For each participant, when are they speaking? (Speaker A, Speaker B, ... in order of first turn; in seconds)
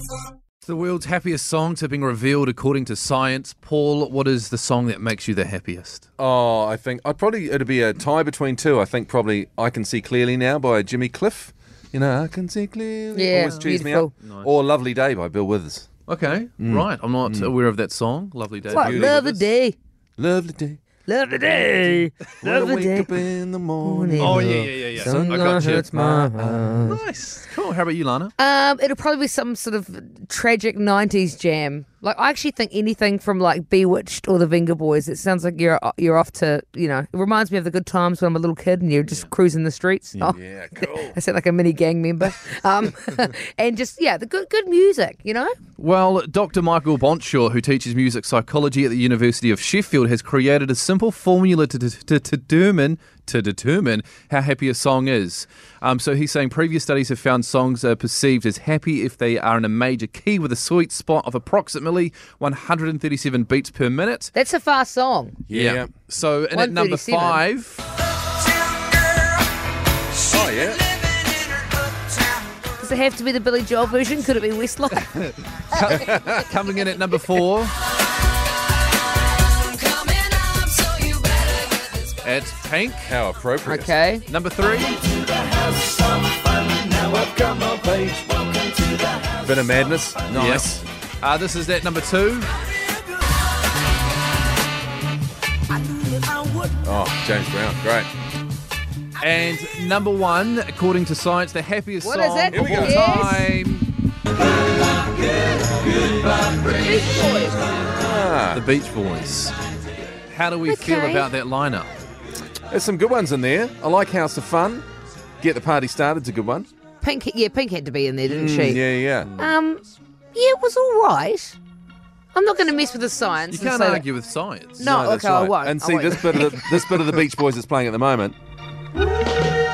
Speaker A: 0.6-6.1, 16.1-19.1, 24.2-28.3, 45.8-64.3, 65.5-67.9, 75.7-77.8, 82.0-83.1, 84.3-85.1, 90.3-92.5, 99.2-103.9, 108.5-109.5, 110.3-111.9, 123.5-124.9
Speaker B: 6.2-15.9, 16.6-17.5, 18.7-19.5, 20.2-20.8, 22.4-26.0, 40.2-41.2, 65.5-65.9, 70.2-70.9, 75.8-76.5, 83.1-84.0, 87.1-88.1, 89.3-90.8, 96.8-98.1, 102.5-103.0, 107.9-108.6, 112.7-114.8, 115.4-116.7, 118.2-119.3, 124.8-128.4
Speaker C: 13.1-14.1, 18.7-19.8, 21.1-23.2, 23.8-27.0, 28.4-45.5, 64.3-65.4, 66.5-67.4, 72.8-75.8, 80.6-81.3, 83.6-84.2, 102.0-103.5, 106.5-107.7, 110.7-111.3, 117.0-118.8, 119.4-121.6, 122.3-124.0, 124.8-126.7